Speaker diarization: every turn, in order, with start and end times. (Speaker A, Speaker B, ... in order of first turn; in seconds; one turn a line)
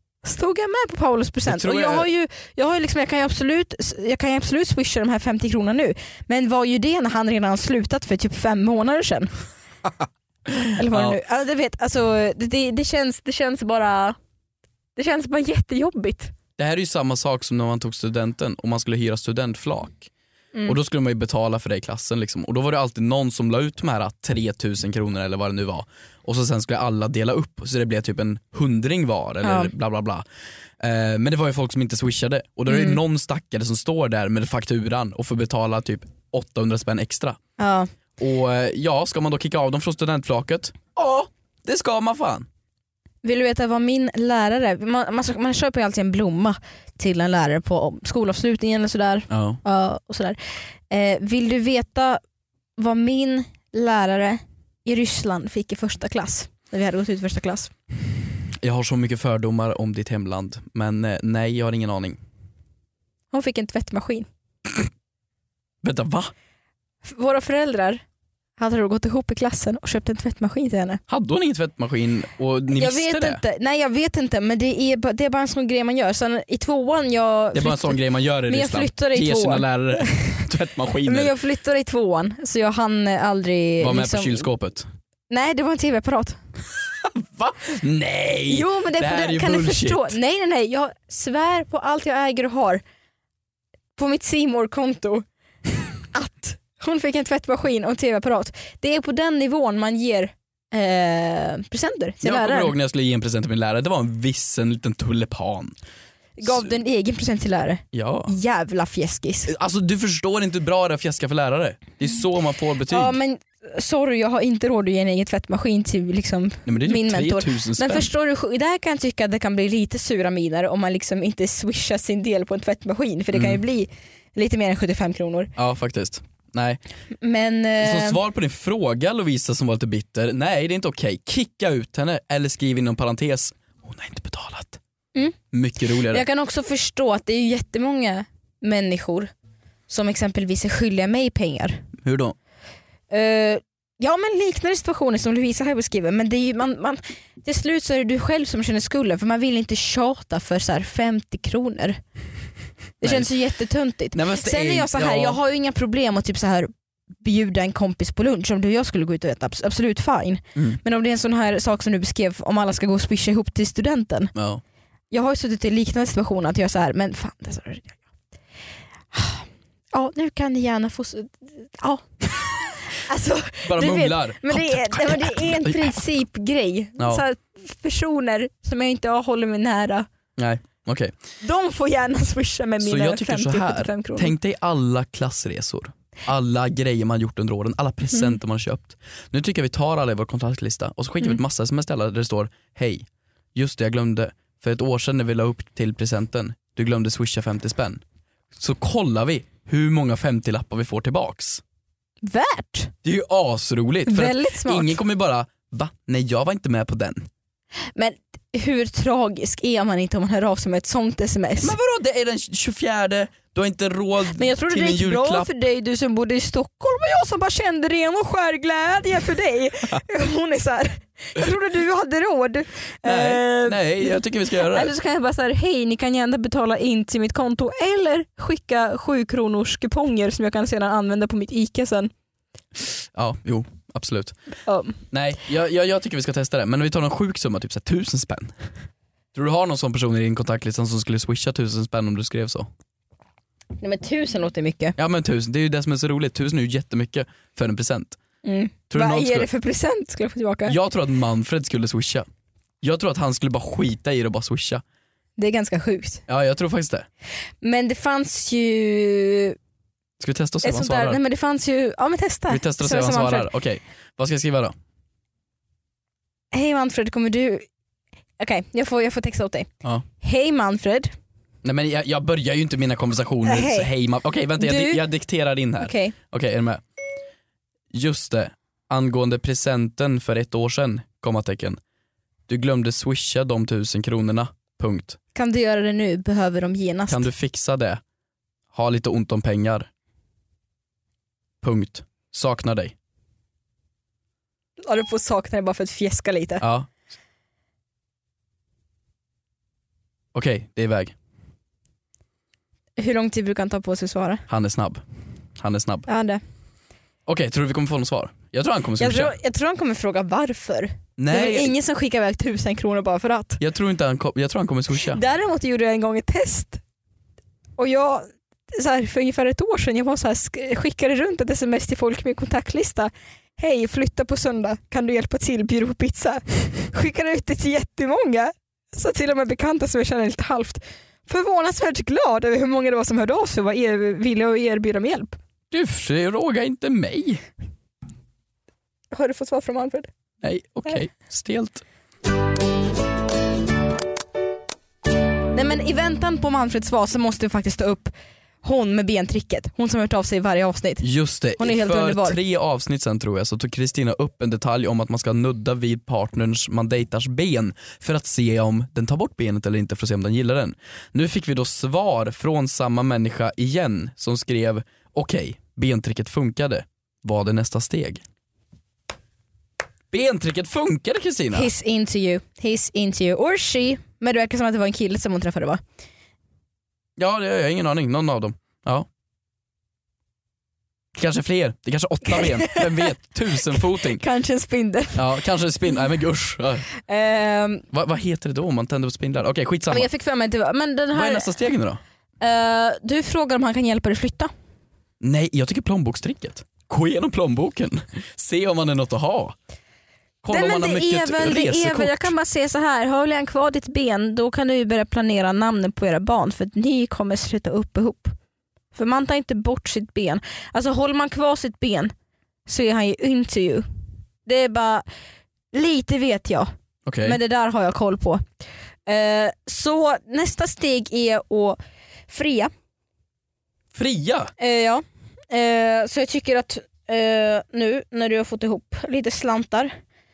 Speaker A: 0.2-9.3
Speaker B: 1.4-2.1
Speaker B: 10.6-11.2
Speaker A: 10.7-14.2
Speaker A: 15.0-16.3
Speaker B: 16.6-20.1
Speaker B: 20.7-30.2
Speaker A: 29.4-29.7
Speaker B: 30.8-37.4
Speaker A: 32.7-33.0
Speaker A: 37.6-37.9
Speaker B: 38.2-42.5
Speaker A: 43.2-50.4
Speaker B: 49.3-49.6
Speaker A: 50.9-52.2
Speaker A: 52.8-57.7
Speaker B: 58.6-62.2
Speaker A: 63.3-64.3
Speaker B: 65.8-66.3
Speaker A: 67.0-68.0
Speaker A: 68.6-71.0
Speaker B: 71.1-73.4
Speaker A: 72.7-80.5
Speaker B: 77.5-81.3
Speaker A: 81.0-84.5
Speaker B: 83.8-84.9
Speaker A: 85.3-86.4
Speaker B: 86.8-90.2
Speaker A: 88.5-92.8
Speaker A: 94.0-102.7
Speaker B: 102.2-105.7
Speaker A: 106.4-109.5
Speaker B: 107.9-108.3
Speaker B: 109.5-113.2
Speaker A: 112.9-125.5
Speaker B: 116.7-118.1
Speaker B: 123.3-123.6
Speaker B: 125.6-126.8
Speaker A: 127.2-128.2
Speaker B: 127.8-134.8
Speaker B: 135.5-136.2
Speaker A: 136.1-139.3
Speaker A: 139.9-141.8
Speaker B: 142.0-142.3
Speaker A: 143.1-152.0
Speaker A: 153.0-156.7
Speaker B: 153.0-153.3
Speaker B: 154.1-155.4
Speaker A: 157.2-164.3
Speaker B: 164.3-164.6
Speaker A: 165.1-168.0
Speaker A: 169.1-180.1
Speaker B: 173.6-176.1
Speaker B: 180.4-181.1
Speaker A: 181.4-184.3
Speaker B: 182.8-198.0
Speaker B: 198.6-201.6
Speaker A: 202.2-202.9
Speaker B: 203.0-207.3
Speaker A: 204.1-205.0
Speaker A: 207.9-211.8
Speaker B: 211.6-215.5
Speaker A: 214.3-232.1
Speaker B: 223.1-224.9
Speaker B: 233.1-234.3
Speaker A: 234.7-235.0
Speaker B: 235.1-238.6
Speaker B: 239.3-242.7
Speaker A: 243.8-245.0
Speaker B: 245.0-248.2
Speaker A: 248.4-250.8
Speaker B: 248.9-249.5
Speaker B: 250.7-252.3
Speaker B: 252.8-254.8
Speaker A: 255.4-256.2
Speaker B: 256.3-257.1
Speaker A: 257.6-259.6
Speaker B: 260.2-261.2
Speaker A: 260.6-263.5
Speaker B: 262.5-264.7
Speaker A: 266.5-267.7
Speaker A: 268.4-271.1
Speaker B: 271.6-276.8
Speaker A: 273.4-273.9
Speaker A: 274.6-275.0
Speaker A: 275.8-276.1
Speaker B: 277.9-281.8
Speaker B: 282.5-285.2
Speaker A: 285.4-287.3
Speaker B: 287.1-288.0
Speaker B: 288.7-289.9
Speaker B: 291.6-292.9
Speaker A: 294.8-296.6
Speaker B: 296.6-296.9
Speaker B: 300.3-301.1
Speaker A: 303.0-304.4
Speaker B: 304.5-305.0
Speaker B: 305.6-306.1
Speaker A: 306.1-306.4
Speaker B: 307.3-309.4
Speaker A: 309.0-313.6
Speaker B: 311.2-311.8
Speaker B: 313.6-315.2
Speaker A: 315.0-316.8
Speaker A: 317.8-335.4
Speaker B: 335.7-337.4
Speaker A: 339.1-340.1
Speaker B: 340.4-341.8
Speaker A: 345.5-351.1
Speaker B: 351.0-368.2
Speaker A: 351.6-352.4
Speaker B: 370.1-371.7
Speaker A: 371.5-375.8
Speaker B: 377.2-379.1
Speaker B: 381.1-384.2
Speaker A: 382.3-385.2
Speaker B: 385.2-386.9
Speaker A: 387.0-387.9
Speaker B: 387.9-390.1
Speaker A: 389.9-391.5
Speaker B: 391.1-392.0
Speaker A: 392.4-394.5
Speaker B: 395.2-399.6
Speaker B: 400.4-402.3
Speaker A: 400.5-408.3
Speaker A: 408.9-412.1
Speaker A: 412.7-413.9
Speaker A: 414.4-415.1
Speaker A: 415.7-416.7
Speaker B: 417.1-417.4
Speaker A: 417.2-418.4
Speaker A: 419.1-422.7
Speaker B: 423.9-424.5
Speaker A: 424.6-429.9